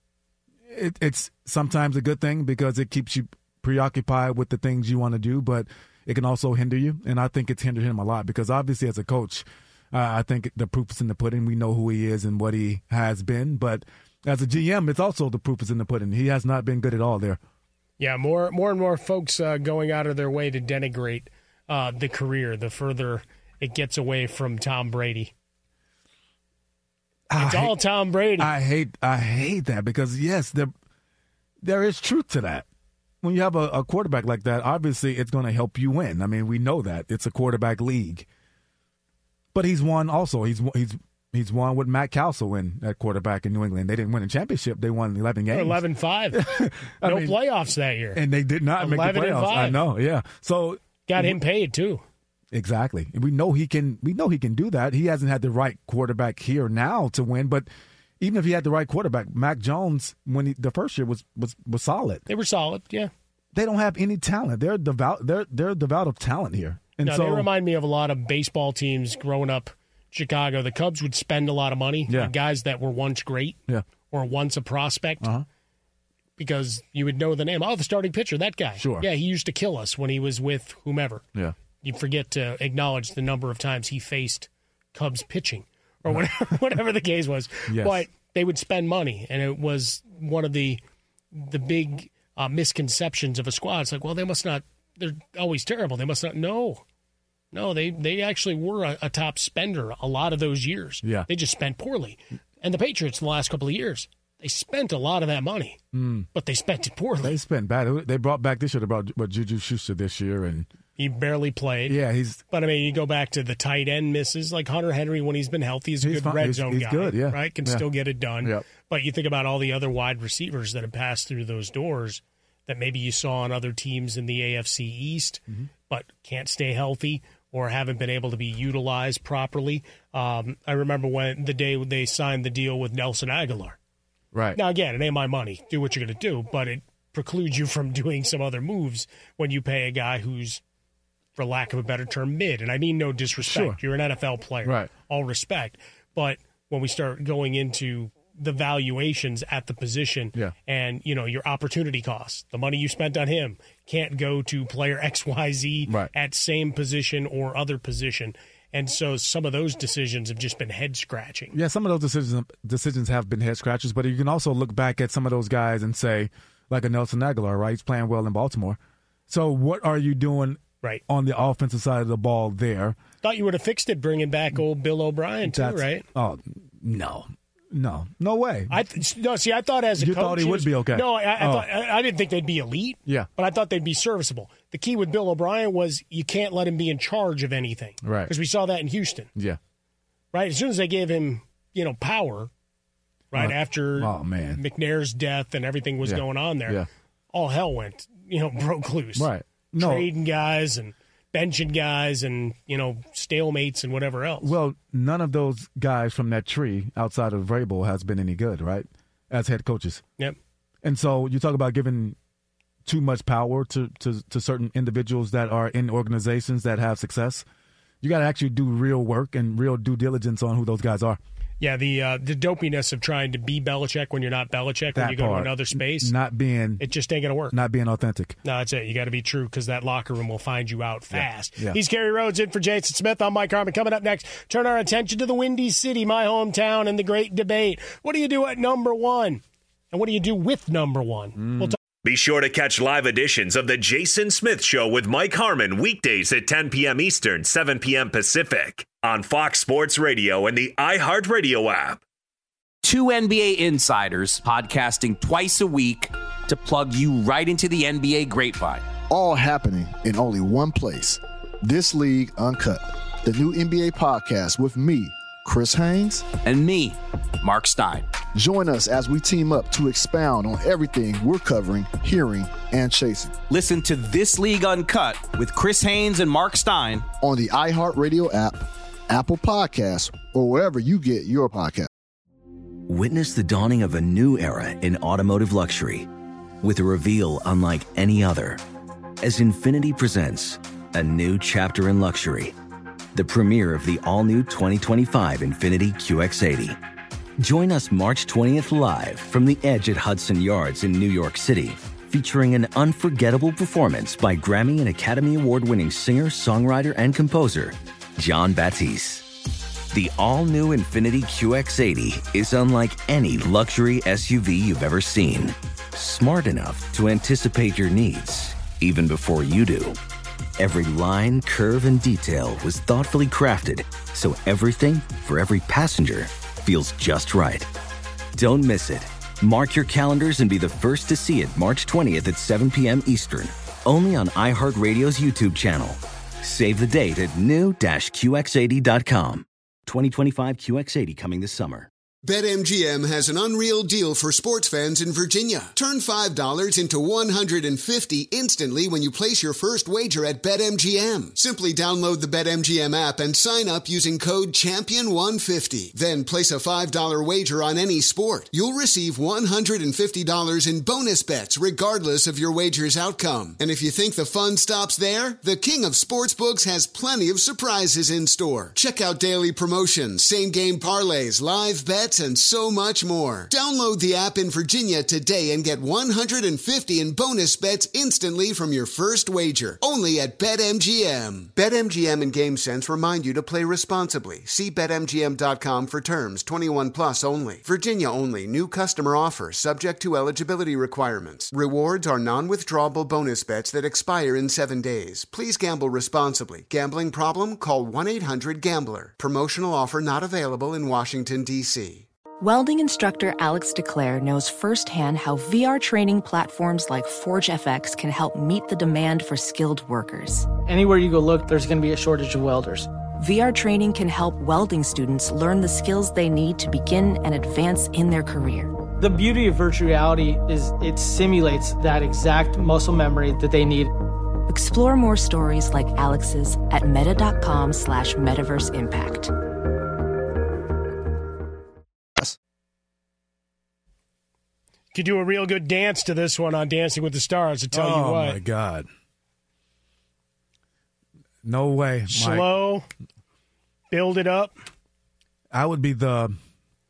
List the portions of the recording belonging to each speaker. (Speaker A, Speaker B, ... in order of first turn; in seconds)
Speaker A: 0.7-17.4, 27.3-27.8, 28.4-30.7, 31.6-32.7, 33.2-38.3, 39.5-45.8, 46.3-47.4, 48.1-51.4, 52.5-57.7, 58.2-62.2, 63.5-67.5, 78.8-79.1, 87.7-88.0, 101.0-101.3, 105.9-106.3, 107.2-110.7, 111.9-112.4, 116.0-117.8, 134.3-134.6, 143.4-143.8, 144.6-144.9, 161.5-173.0, 175.4-178.8, 180.0-181.7, 188.0-188.3, 193.3-194.6, 196.0-196.9, 199.2-200.1, 204.4-210.0, 210.8-212.2, 212.8-217.4, 218.0-221.2, 224.9-226.8, 227.5-228.4, 231.1-231.8, 241.4-241.8, 437.7-438.9, 441.4-442.5, 445.5-446.4
Speaker B: 18.0-25.3, 27.4-28.5, 45.5-46.5, 47.0-48.2, 48.8-49.8, 51.1-52.0, 62.3-63.1, 67.0-75.3, 76.4-81.2, 81.8-90.8, 91.3-96.8, 97.5-105.8, 106.3-107.4, 111.0-112.0, 112.5-133.8, 134.6-140.6, 141.4-161.6, 173.2-176.1, 178.7-189.3, 190.3-192.5, 193.3-196.8, 197.3-204.5, 221.6-226.1, 226.8-227.5, 228.4-239.4, 239.9-241.8, 434.9-438.4, 442.1-442.9, 443.9-444.5
Speaker C: 242.0-252.0
Speaker D: 252.8-258.8, 266.4-268.1, 273.5-277.1
Speaker E: 259.1-266.3, 268.4-273.3, 277.2-281.9
Speaker F: 282.9-286.1, 286.6-288.6, 289.2-292.6, 293.1-296.8, 297.4-309.3, 309.9-320.0, 320.6-327.7, 328.4-341.9
Speaker G: 342.2-402.1
Speaker H: 402.4-410.5, 413.2-418.7, 424.5-429.3
Speaker I: 410.7-412.9, 419.0-423.9